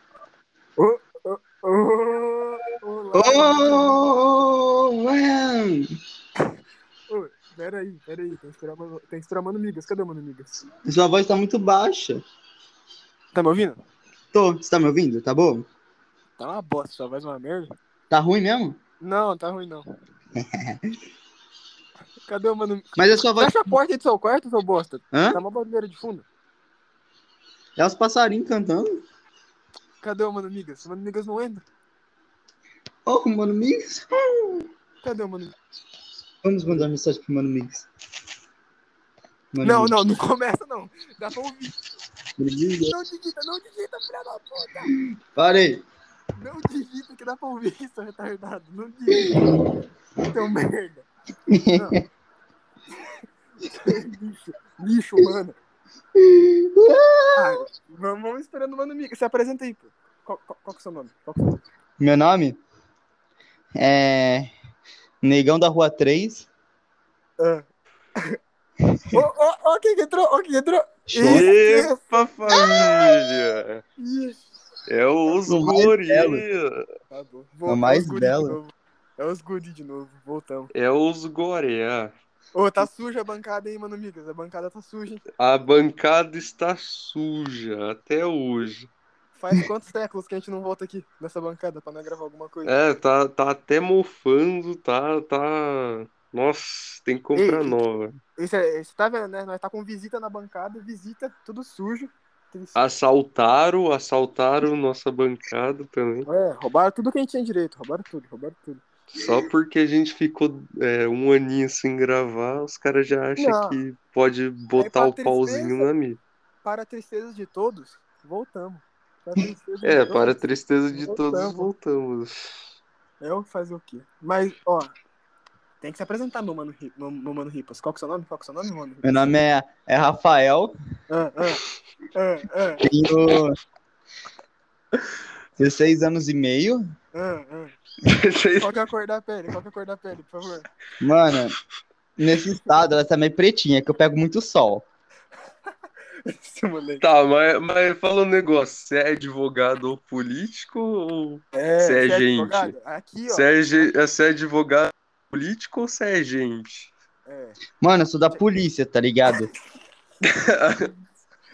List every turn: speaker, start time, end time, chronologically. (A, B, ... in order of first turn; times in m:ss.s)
0:00.8-0:04.0 A
0:03.1-0:05.9 B
0:07.1-0:10.6 A
0:10.8-0:12.2 B
0:13.3-0:13.8 A
0:14.3-0:15.7 B
0:16.4-0:17.7 A
0:18.1-0:18.8 B
0:19.0-0:19.8 A
0:20.4-0:20.9 B
0:22.3-0:26.2 A
0:23.0-0:23.8 B
0:25.1-0:25.4 B
0:27.8-0:29.0 B
0:30.0-0:31.6 A
0:33.0-0:34.6 B
0:35.0-0:35.6 A
0:36.4-0:37.9 B
0:39.5-0:40.0 B
0:39.6-0:41.8 A
0:42.4-0:43.0 B
0:42.8-0:44.9 A
0:45.0-0:45.8 B
0:46.4-0:49.6 A
0:49.1-0:49.8 B
0:50.2-0:51.1 A
0:51.5-0:52.0 B
0:51.7-0:52.0 A
0:53.7-0:55.6 A
0:56.1-0:57.6 B
0:57.3-1:01.6 A
1:02.0-1:02.6 B
1:03.8-1:04.5 B
1:05.2-1:06.5 B
1:07.4-1:08.4 A
1:08.9-1:09.2 B
1:09.1-1:13.2 A
1:11.1-1:11.4 B
1:11.2-1:13.8 C
1:14.0-1:14.4 A
1:14.9-1:16.8 C
1:15.4-1:16.4 B
1:17.1-1:20.7 A
1:17.7-1:18.6 B
1:20.7-1:22.1 C
1:22.5-1:25.2 A
1:25.4-1:28.9 C
1:29.4-1:32.7 A
1:32.6-1:38.2 C
1:37.3-1:37.8 A
1:38.4-1:42.8 A
1:42.8-1:46.3 C
1:46.2-1:48.8 A
1:49.1-1:56.2 C
1:53.4-1:53.8 A
1:54.8-1:55.9 A
1:56.6-2:01.7 A
1:59.8-2:02.5 C
2:03.2-2:04.9 A
2:05.8-2:09.3 A
2:09.0-2:10.7 B
2:11.1-2:11.6 A
2:12.1-2:12.8 A
2:12.8-2:13.6 B
2:15.6-2:16.9 B
2:17.1-2:17.7 A
2:18.0-2:18.7 C
2:18.6-2:20.7 A
2:21.0-2:21.6 B
2:22.2-2:24.8 B
2:26.2-2:27.0 A
2:27.0-2:32.7 C
2:31.5-2:33.9 A
2:33.3-2:36.9 C
2:37.2-2:37.6 A
2:37.8-2:39.5 B
2:40.2-2:40.9 C